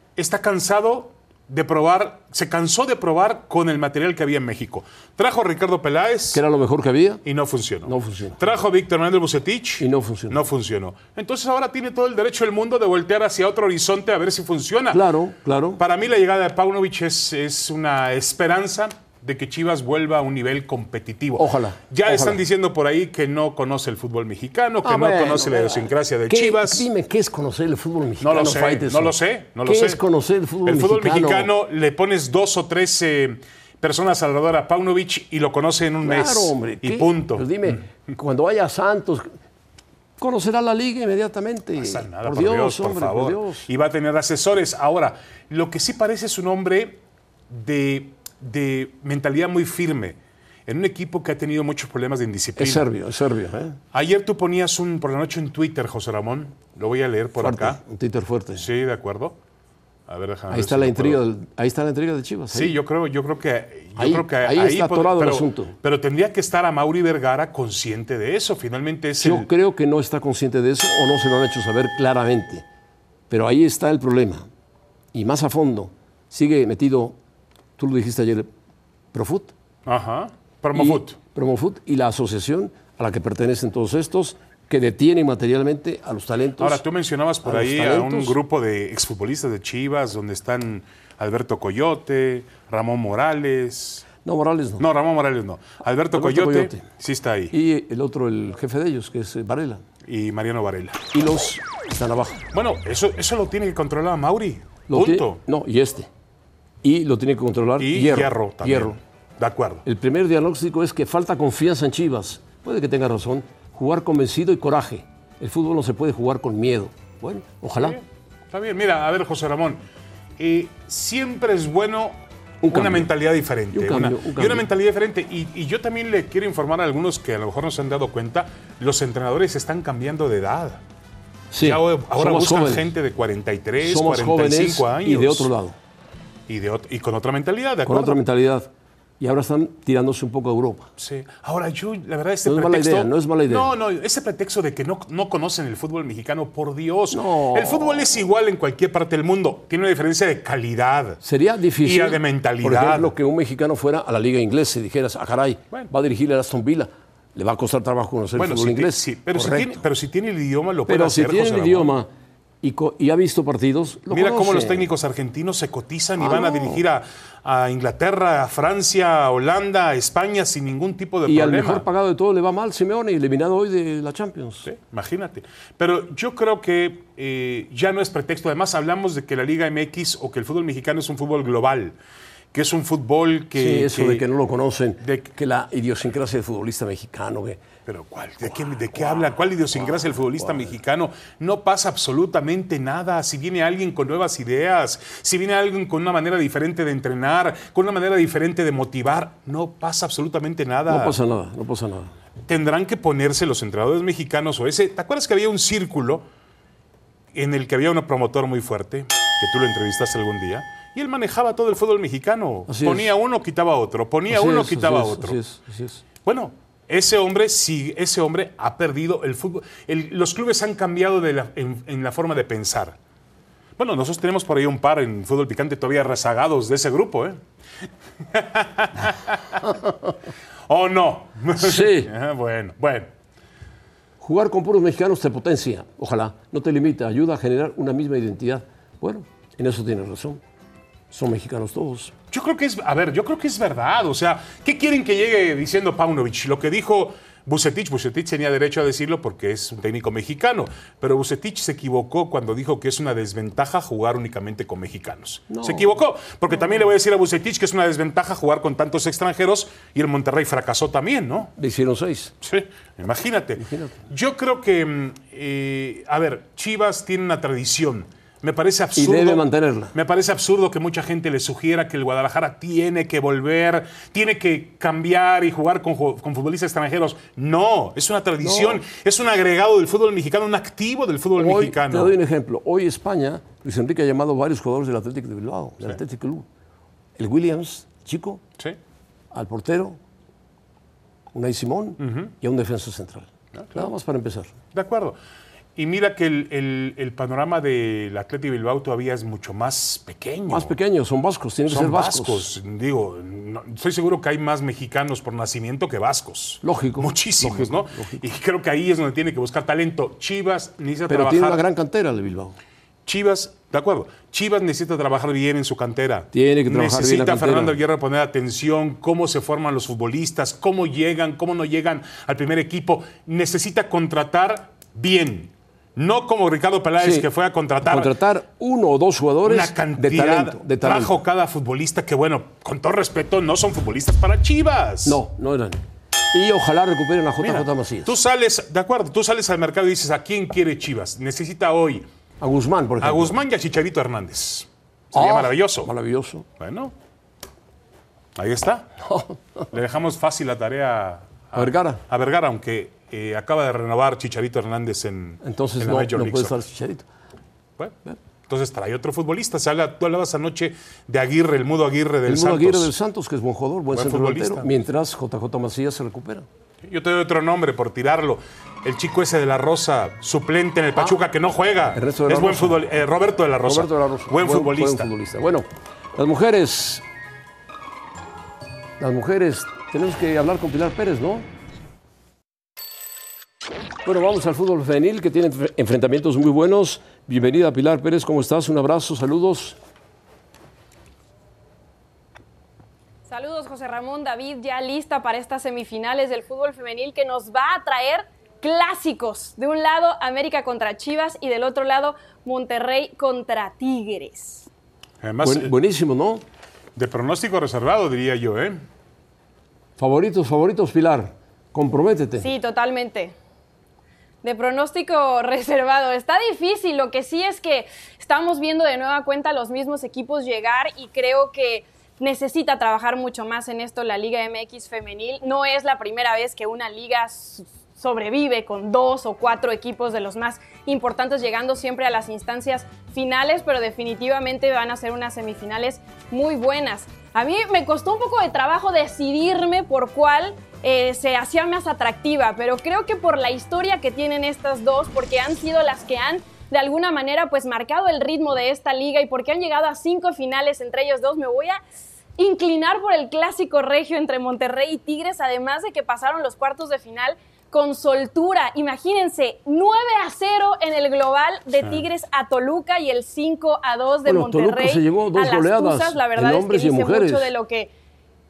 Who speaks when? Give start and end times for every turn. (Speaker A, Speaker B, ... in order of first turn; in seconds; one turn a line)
Speaker A: 0.1-6.4
Speaker B: 6.3-7.2
Speaker A: 7.2-15.0
Speaker B: 7.8-8.4
Speaker B: 9.8-10.4
Speaker B: 14.9-15.8
Speaker A: 15.8-26.9
Speaker B: 21.4-22.4
Speaker B: 24.8-31.5
Speaker A: 28.2-30.0
Speaker A: 30.6-37.7
Speaker B: 36.0-39.3
Speaker B: 40.2-43.7
Speaker A: 41.8-52.9
Speaker B: 52.5-53.8
Speaker A: 53.9-57.8
Speaker B: 57.4-58.7
Speaker A: 58.5-59.4
Speaker A: 60.1-61.2
Speaker B: 60.5-62.8
Speaker A: 62.5-69.5
Speaker B: 64.0-65.7
Speaker B: 69.2-72.7
Speaker B: 73.3-74.5
Speaker B: 75.1-77.2
Speaker B: 77.8-78.5
Speaker B: 79.1-79.5
Speaker A: 79.8-81.2
Speaker B: 80.7-86.8
Speaker A: 86.6-94.1
Speaker B: 87.4-88.4
Speaker B: 94.2-94.8
Speaker A: 94.8-97.5
Speaker B: 96.1-96.9
Speaker B: 97.5-99.8
Speaker A: 100.0-101.1
Speaker B: 101.1-102.4
Speaker A: 102.5-105.4
Speaker B: 104.9-106.1
Speaker B: 106.8-109.0
Speaker A: 107.8-109.8
Speaker B: 109.8-118.0
Speaker A: 117.8-119.8
Speaker A: 120.4-122.2
Speaker B: 122.6-123.1
Speaker A: 122.7-130.8
Speaker B: 123.7-124.7
Speaker B: 131.5-132.9
Speaker A: 131.6-135.5
Speaker B: 133.8-135.8
Speaker A: 136.5-138.2
Speaker B: 137.8-140.9
Speaker A: 141.0-151.2
Speaker B: 142.4-143.7
Speaker B: 147.1-148.1
Speaker B: 151.2-159.8
Speaker A: 151.8-153.1
Speaker A: 158.3-161.9
Speaker B: 160.9-162.1
Speaker B: 162.6-164.9
Speaker A: 164.1-171.8
Speaker B: 166.2-166.8
Speaker B: 171.2-174.7
Speaker A: 174.6-181.9
Speaker A: 182.5-184.2
Speaker B: 183.6-187.6
Speaker A: 185.0-185.3
Speaker A: 187.8-201.2
Speaker B: 189.2-190.7
Speaker B: 200.9-202.1
Speaker A: 202.5-206.2
Speaker A: 207.3-215.4
Speaker B: 212.7-213.1
Speaker B: 214.3-216.0
Speaker A: 216.2-223.0
Speaker A: 223.8-227.4
Speaker A: 228.2-229.8
Speaker A: 230.7-233.1
Speaker B: 231.6-232.1
Speaker B: 234.2-240.4
Speaker B: 241.1-242.1
Speaker A: 242.3-261.5
Speaker B: 255.5-255.9
Speaker B: 261.6-262.3
Speaker A: 262.4-282.2
Speaker B: 263.6-264.0
Speaker B: 268.9-269.9
Speaker B: 278.4-278.8
Speaker B: 281.4-286.5
Speaker B: 287.2-288.4
Speaker B: 289.3-290.0
Speaker B: 291.3-294.5
Speaker A: 292.0-292.3
Speaker A: 293.5-293.9
Speaker A: 294.7-295.2
Speaker A: 295.8-300.7
Speaker B: 300.5-302.5
Speaker A: 301.7-311.6
Speaker B: 306.6-308.2
Speaker B: 311.1-312.6
Speaker A: 313.1-328.1
Speaker B: 316.3-317.8
Speaker B: 327.0-327.3
Speaker B: 327.8-331.2
Speaker A: 329.4-335.2
Speaker B: 335.0-335.8
Speaker B: 336.3-338.1
Speaker A: 337.4-342.1
Speaker B: 342.4-343.4
Speaker A: 343.0-345.9
Speaker B: 345.1-346.4
Speaker A: 346.6-346.9
Speaker A: 348.4-348.9
Speaker B: 349.0-349.7
Speaker A: 349.7-356.6
Speaker B: 351.5-352.0
Speaker B: 355.4-357.1
Speaker A: 358.5-362.9
Speaker B: 362.2-366.4
Speaker A: 363.9-364.7
Speaker A: 366.8-375.1
Speaker B: 371.9-372.8
Speaker B: 373.6-377.0
Speaker B: 379.0-381.5
Speaker B: 384.0-389.8
Speaker C: 393.3-404.7
Speaker A: 405.2-405.7
Speaker B: 405.4-406.4
Speaker A: 406.9-408.8
Speaker B: 410.0-412.5
Speaker C: 412.4-413.3
Speaker C: 414.4-451.8
Speaker C: 452.4-467.9
Speaker B: 464.2-467.5